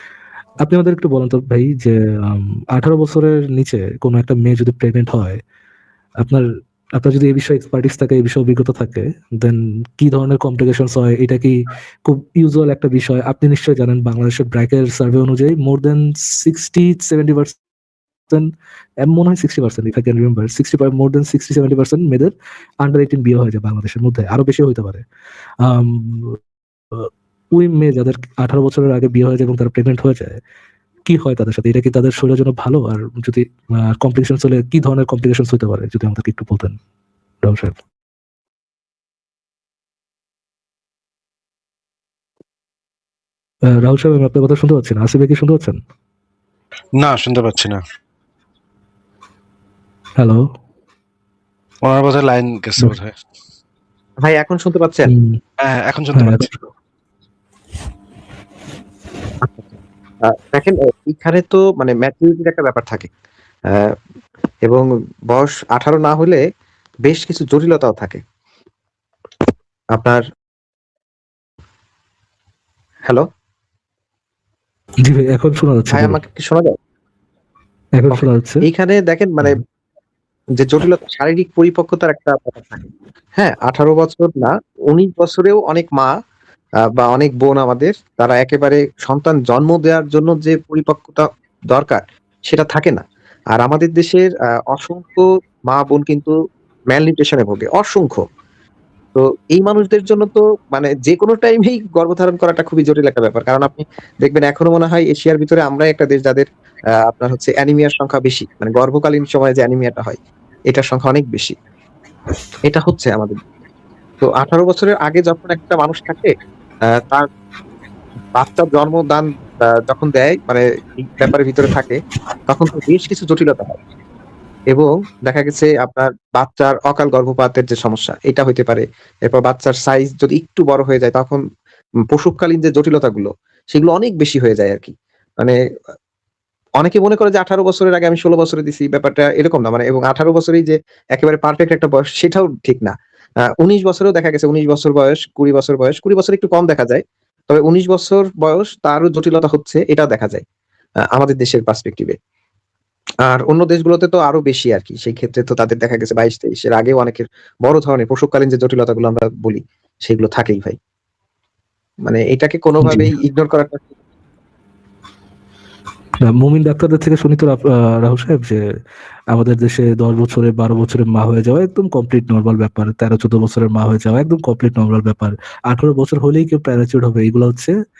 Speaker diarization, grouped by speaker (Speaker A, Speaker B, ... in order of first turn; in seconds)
Speaker A: 0.6-5.4, 7.0-17.6, 19.0-25.0, 25.6-26.4, 26.9-30.4, 31.1-36.8, 37.4-37.8, 43.8-45.8, 50.2-50.5, 55.1-55.4, 56.1-56.7, 75.0-76.2, 78.0-78.7, 162.8-163.1, 166.2-168.6, 169.3-177.7
Speaker B: 47.0-47.8, 51.8-53.1, 55.6-56.5
Speaker C: 54.2-55.1, 59.4-59.7, 60.2-63.1, 63.7-64.0, 64.6-66.4, 67.0-68.2, 69.9-70.2, 75.9-76.8, 78.1-79.6, 80.6-86.2, 86.8-93.0, 93.5-96.3, 96.9-98.2, 99.1-111.5, 112.7-113.3, 114.2-116.3, 116.9-117.3, 118.3-123.8, 124.7-131.4, 132.1-135.5, 136.8-142.9, 143.4-150.4, 151.1-152.2, 153.2-160.8, 162.0-163.9